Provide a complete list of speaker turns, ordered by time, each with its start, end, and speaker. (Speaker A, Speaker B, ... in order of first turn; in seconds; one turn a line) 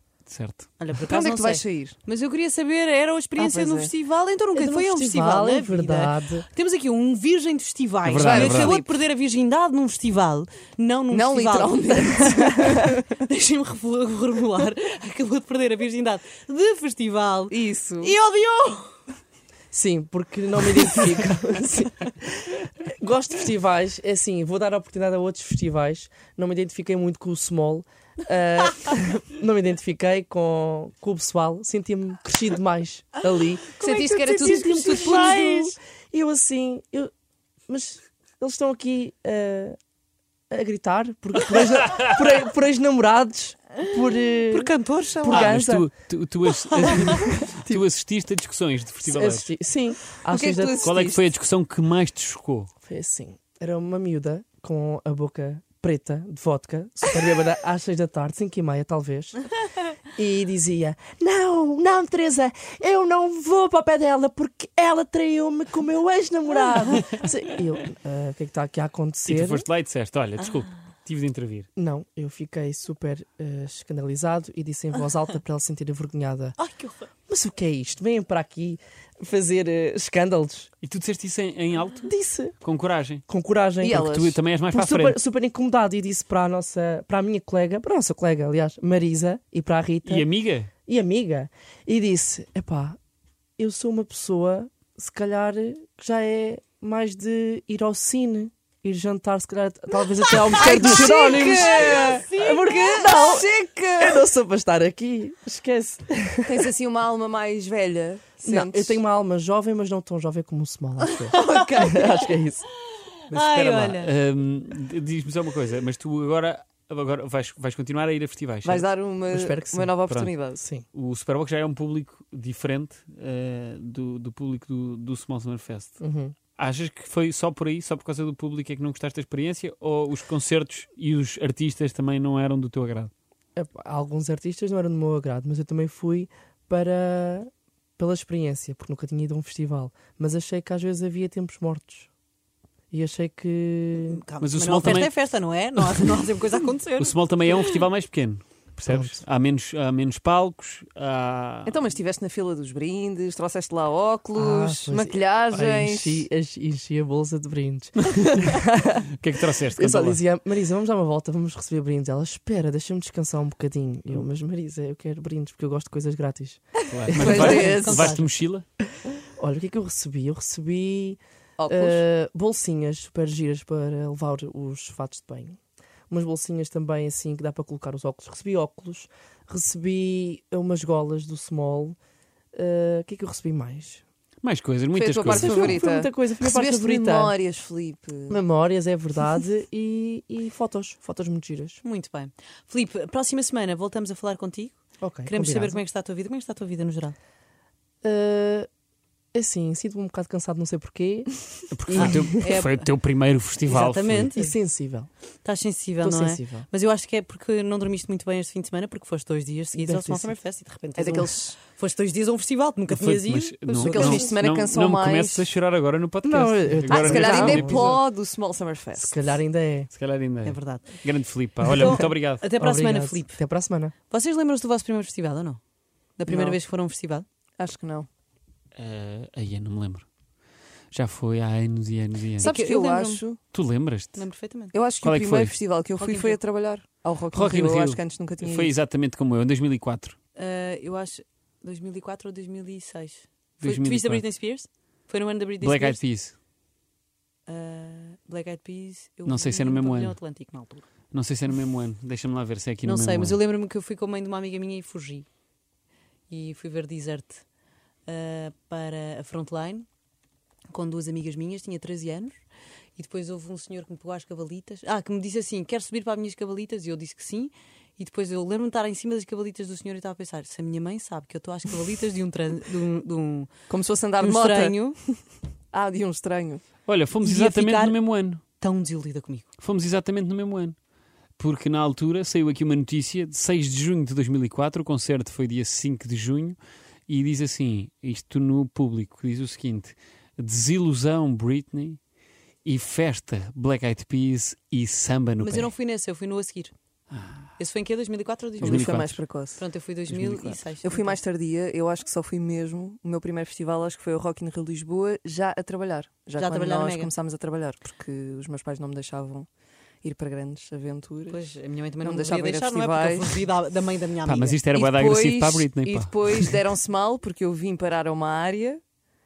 Speaker A: 0.3-0.7
Speaker B: 0.8-19.0
Speaker C: 1.1-2.0
Speaker C: 3.4-3.9
Speaker D: 4.5-6.5
Speaker A: 8.1-8.8
Speaker C: 8.1-8.9
Speaker C: 11.1-13.0
Speaker C: 17.5-18.1
Speaker D: 19.7-37.1
Speaker C: 33.8-35.4
Speaker B: 34.3-35.7
Speaker D: 37.7-39.8
Speaker D: 40.5-45.9
Speaker B: 44.5-45.5
Speaker A: 45.3-49.5
Speaker D: 46.8-47.8
Speaker D: 49.0-50.9
Speaker C: 50.3-51.2
Speaker A: 50.8-52.7
Speaker D: 52.8-59.5
Speaker D: 60.1-69.7
Speaker A: 69.3-71.7
Speaker D: 71.8-76.6
Speaker B: 76.6-77.1
Speaker D: 77.3-80.7
Speaker A: 80.8-83.2
Speaker D: 82.0-82.6
Speaker D: 83.3-84.0
Speaker C: 83.8-84.4
Speaker A: 83.9-85.2
Speaker D: 84.7-90.3
Speaker A: 90.0-90.7
Speaker D: 90.9-93.0
Speaker D: 93.6-106.6
Speaker C: 100.4-104.2
Speaker B: 101.5-102.6
Speaker C: 106.5-109.0
Speaker D: 108.4-112.7
Speaker C: 111.2-112.3
Speaker B: 113.3-114.1
Speaker A: 113.3-118.9
Speaker C: 118.6-120.6
Speaker D: 119.3-120.0
Speaker A: 120.1-120.3
Speaker D: 120.6-120.8
Speaker A: 120.9-126.0
Speaker D: 126.0-126.3
Speaker A: 126.6-133.1
Speaker D: 133.6-142.1
Speaker D: 142.9-144.2
Speaker B: 144.0-147.8
Speaker A: 144.4-145.1
Speaker A: 147.0-151.8
Speaker D: 148.9-149.2
Speaker C: 151.7-156.3
Speaker D: 154.3-158.9
Speaker A: 158.2-160.2
Speaker D: 159.7-167.8
Speaker A: 166.9-168.7
Speaker C: 167.1-168.0
Speaker B: 167.2-168.3
Speaker D: 169.4-175.6
Speaker C: 171.6-172.0
Speaker D: 176.1-182.0
Speaker D: 182.6-184.0
Speaker A: 184.4-185.8
Speaker C: 184.9-188.4
Speaker D: 185.2-187.3
Speaker D: 188.3-191.8
Speaker B: 191.8-197.2
Speaker D: 195.0-195.8
Speaker D: 198.0-198.7
Speaker D: 199.3-202.5
Speaker A: 201.7-204.3
Speaker B: 202.0-202.8
Speaker B: 203.7-204.6
Speaker D: 204.4-205.1
Speaker B: 205.4-213.4
Speaker D: 206.0-206.7
Speaker D: 209.7-210.3
Speaker C: 211.0-211.6
Speaker A: 212.9-217.9
Speaker D: 213.3-214.3
Speaker C: 213.7-215.5
Speaker D: 216.2-218.1
Speaker C: 216.9-219.2
Speaker D: 218.9-219.9
Speaker A: 219.9-222.4
Speaker B: 220.4-221.0
Speaker B: 221.7-223.4
Speaker D: 222.6-223.9
Speaker B: 224.1-225.6
Speaker B: 226.2-227.2
Speaker C: 226.3-226.6
Speaker C: 227.6-228.1
Speaker A: 228.8-230.1
Speaker A: 230.9-232.5
Speaker C: 232.4-233.4
Speaker B: 232.4-233.2
Speaker A: 233.5-234.3
Speaker B: 234.2-234.7
Speaker C: 234.7-238.8
Speaker A: 235.0-235.6
Speaker B: 236.0-236.4
Speaker A: 237.3-240.2
Speaker B: 240.4-246.0
Speaker A: 243.6-244.2
Speaker A: 245.6-246.3
Speaker B: 247.5-250.8
Speaker A: 249.3-250.2
Speaker A: 251.1-253.4
Speaker B: 252.8-255.3
Speaker B: 256.3-257.4
Speaker B: 258.1-259.9
Speaker B: 260.7-262.4
Speaker B: 263.0-273.5
Speaker C: 273.7-275.1
Speaker B: 274.2-275.0
Speaker C: 275.7-276.6
Speaker A: 276.9-278.4
Speaker B: 277.2-279.5
Speaker A: 279.6-280.8
Speaker A: 281.4-292.0
Speaker A: 292.6-295.7
Speaker B: 295.4-296.7
Speaker A: 297.1-297.5
Speaker B: 297.6-299.0
Speaker A: 298.6-299.2
Speaker C: 298.6-299.6
Speaker B: 299.6-301.2
Speaker A: 300.1-300.6
Speaker C: 300.8-309.5
Speaker B: 306.4-307.1
Speaker C: 310.0-311.4
Speaker B: 311.3-314.6
Speaker C: 312.0-313.5
Speaker A: 314.2-316.6
Speaker C: 314.7-318.8